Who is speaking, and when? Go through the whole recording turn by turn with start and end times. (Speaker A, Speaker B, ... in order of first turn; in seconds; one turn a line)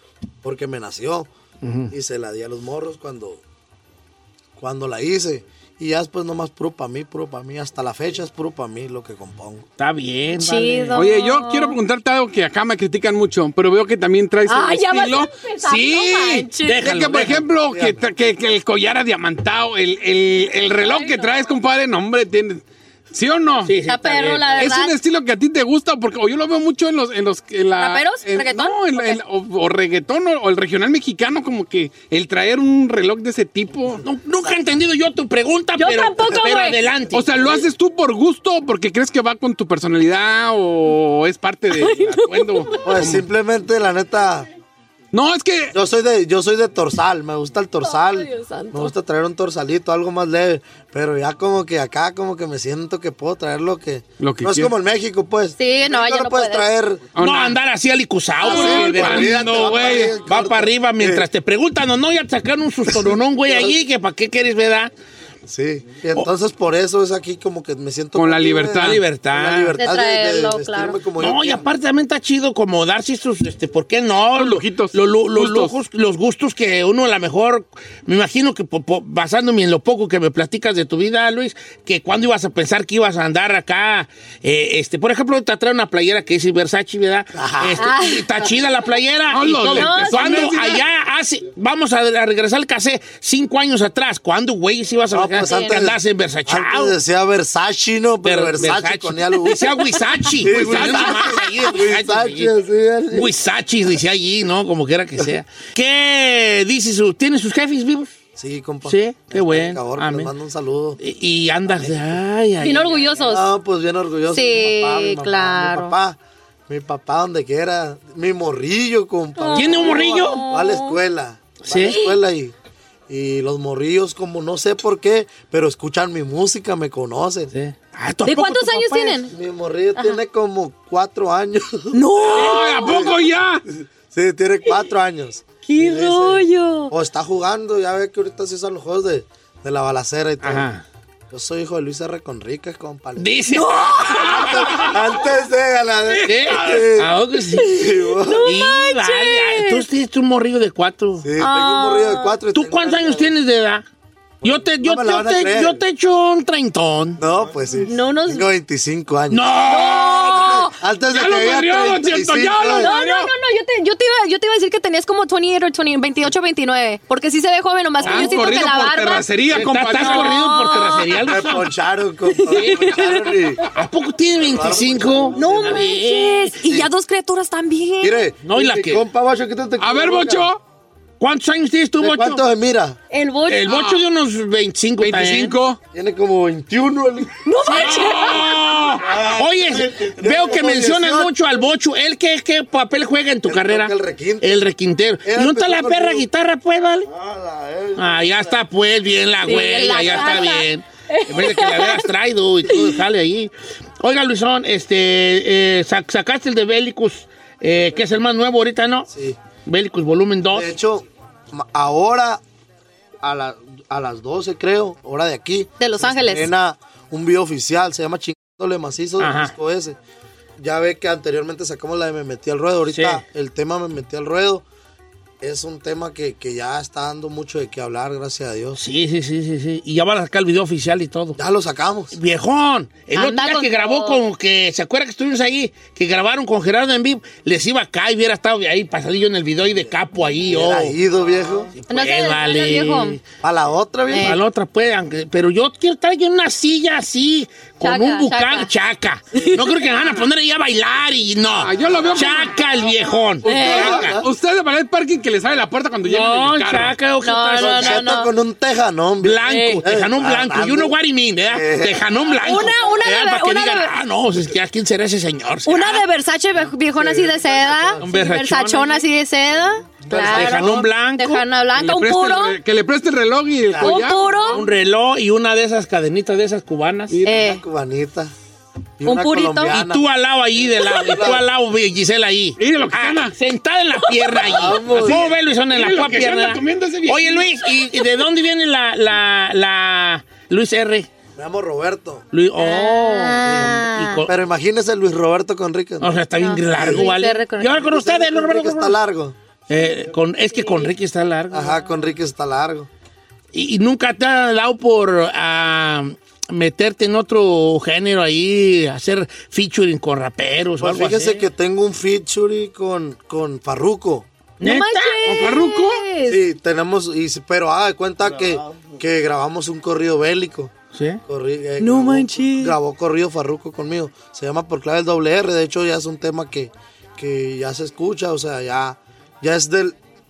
Speaker A: 0.4-1.3
Speaker B: 1.6-1.9
Speaker A: 1.9-3.4
Speaker A: 4.6-9.7
Speaker B: 9.8-11.1
Speaker C: 10.3-11.8
Speaker D: 10.9-23.7
Speaker C: 14.4-16.8
Speaker B: 16.6-17.4
Speaker A: 17.1-18.0
Speaker C: 20.8-21.3
Speaker B: 23.6-24.7
Speaker C: 23.9-24.9
Speaker D: 24.5-34.0
Speaker C: 27.8-29.2
Speaker B: 34.0-37.3
Speaker C: 35.8-36.8
Speaker D: 37.1-43.2
Speaker A: 37.4-37.7
Speaker C: 41.7-42.8
Speaker A: 42.8-44.5
Speaker D: 45.1-45.7
Speaker A: 45.7-57.1
Speaker C: 47.8-48.9
Speaker D: 54.2-54.7
Speaker C: 55.6-56.7
Speaker D: 57.1-57.6
Speaker B: 57.1-64.9
Speaker A: 58.4-61.3
Speaker D: 58.4-60.1
Speaker A: 62.9-63.8
Speaker A: 65.5-71.7
Speaker D: 68.1-69.0
Speaker B: 68.7-69.8
Speaker C: 69.8-71.0
Speaker B: 71.2-96.9
Speaker D: 74.3-75.7
Speaker A: 87.3-87.9
Speaker C: 87.8-88.2
Speaker D: 89.3-90.8
Speaker C: 89.7-90.5
Speaker A: 95.1-99.8
Speaker B: 98.2-102.5
Speaker A: 100.4-103.3
Speaker D: 100.4-101.3
Speaker B: 103.1-108.1
Speaker A: 108.3-111.0
Speaker B: 108.8-110.3
Speaker B: 111.0-113.3
Speaker A: 111.7-112.2
Speaker C: 112.6-113.5
Speaker A: 113.3-122.5
Speaker C: 114.3-115.9
Speaker C: 119.4-121.0
Speaker B: 119.5-120.4
Speaker B: 121.7-122.0
Speaker C: 121.7-122.2
Speaker A: 123.1-127.5
Speaker B: 127.5-129.2
Speaker C: 128.2-129.3
Speaker A: 129.3-132.0
Speaker C: 131.9-132.9
Speaker B: 132.2-132.7
Speaker D: 132.3-133.6
Speaker A: 132.8-140.7
Speaker C: 135.6-136.9
Speaker B: 140.4-140.8
Speaker A: 141.3-143.3
Speaker B: 143.2-144.9
Speaker C: 143.5-144.7
Speaker D: 144.0-145.0
Speaker A: 144.3-148.5
Speaker D: 146.1-146.9
Speaker B: 146.2-147.9
Speaker C: 147.6-149.8
Speaker B: 148.4-151.3
Speaker A: 151.2-153.3
Speaker C: 151.4-152.4
Speaker B: 152.5-153.8
Speaker A: 154.4-155.8
Speaker B: 154.4-157.2
Speaker A: 157.2-159.6
Speaker C: 157.7-158.4
Speaker B: 159.3-160.6
Speaker C: 159.7-160.7
Speaker D: 159.9-160.6
Speaker A: 160.3-162.9
Speaker D: 161.1-163.3
Speaker C: 162.8-169.3
Speaker D: 168.0-170.4
Speaker B: 168.1-168.3
Speaker B: 169.5-171.7
Speaker C: 169.9-171.2
Speaker A: 171.2-173.7
Speaker C: 172.3-173.7
Speaker B: 172.5-173.1
Speaker B: 173.6-176.6
Speaker A: 174.3-175.8
Speaker C: 175.3-178.2
Speaker A: 176.6-176.9
Speaker A: 178.0-180.5
Speaker B: 178.4-179.0
Speaker D: 179.8-180.6
Speaker B: 181.2-182.4
Speaker A: 182.0-183.0
Speaker C: 183.1-183.7
Speaker B: 183.5-185.6
Speaker D: 183.7-184.0
Speaker D: 185.0-185.8
Speaker A: 185.9-187.4
Speaker C: 187.4-188.7
Speaker B: 187.6-197.1
Speaker D: 187.8-188.5
Speaker A: 189.0-191.3
Speaker A: 193.4-194.6
Speaker A: 195.2-196.2
Speaker A: 197.1-198.6
Speaker B: 197.9-209.1
Speaker C: 199.4-202.1
Speaker A: 209.1-209.4
Speaker B: 209.7-210.7
Speaker A: 210.5-212.4
Speaker A: 213.2-220.0
Speaker C: 215.8-216.5
Speaker B: 219.2-219.5
Speaker A: 220.6-224.7
Speaker B: 222.9-223.2
Speaker A: 225.4-228.8
Speaker B: 228.8-231.4
Speaker A: 231.3-232.2
Speaker B: 232.1-241.0
Speaker C: 233.1-234.2
Speaker A: 240.5-241.7
Speaker B: 241.8-243.2
Speaker C: 241.9-243.2
Speaker A: 243.4-244.4
Speaker C: 244.1-244.4
Speaker B: 244.2-254.2
Speaker C: 247.8-248.7
Speaker A: 249.3-249.6
Speaker D: 251.6-252.7
Speaker C: 253.4-254.0
Speaker D: 253.4-256.9
Speaker A: 253.5-254.3
Speaker B: 256.0-258.0
Speaker C: 257.2-258.3
Speaker A: 257.6-260.9
Speaker B: 259.2-266.0
Speaker C: 259.4-259.8
Speaker A: 261.5-262.1
Speaker C: 262.4-263.9
Speaker C: 265.6-270.6
Speaker A: 266.9-268.1
Speaker B: 268.0-269.0
Speaker A: 270.0-270.9
Speaker B: 270.2-271.4
Speaker C: 271.2-272.6
Speaker D: 271.8-274.6
Speaker A: 273.6-274.0
Speaker C: 273.8-274.6
Speaker B: 274.5-277.2
Speaker D: 277.1-277.4
Speaker C: 277.2-277.6
Speaker A: 277.3-278.3
Speaker A: 279.0-280.0
Speaker C: 279.0-279.8
Speaker B: 279.7-291.1
Speaker A: 281.1-281.4
Speaker D: 282.6-283.3
Speaker A: 284.4-285.3
Speaker D: 284.5-287.8
Speaker A: 291.4-292.2
Speaker B: 292.3-294.3
Speaker C: 292.6-294.2
Speaker A: 293.4-296.1
Speaker B: 296.0-299.0
Speaker C: 296.4-297.8
Speaker A: 296.7-297.1
Speaker A: 297.7-299.4
Speaker B: 299.7-301.9
Speaker C: 300.5-300.9
Speaker A: 301.5-302.9
Speaker B: 303.5-311.4
Speaker A: 310.8-314.3
Speaker B: 314.6-315.6
Speaker C: 314.6-316.4
Speaker D: 315.3-316.0
Speaker A: 316.2-320.7
Speaker B: 320.9-321.2
Speaker A: 321.3-330.0
Speaker C: 321.8-322.7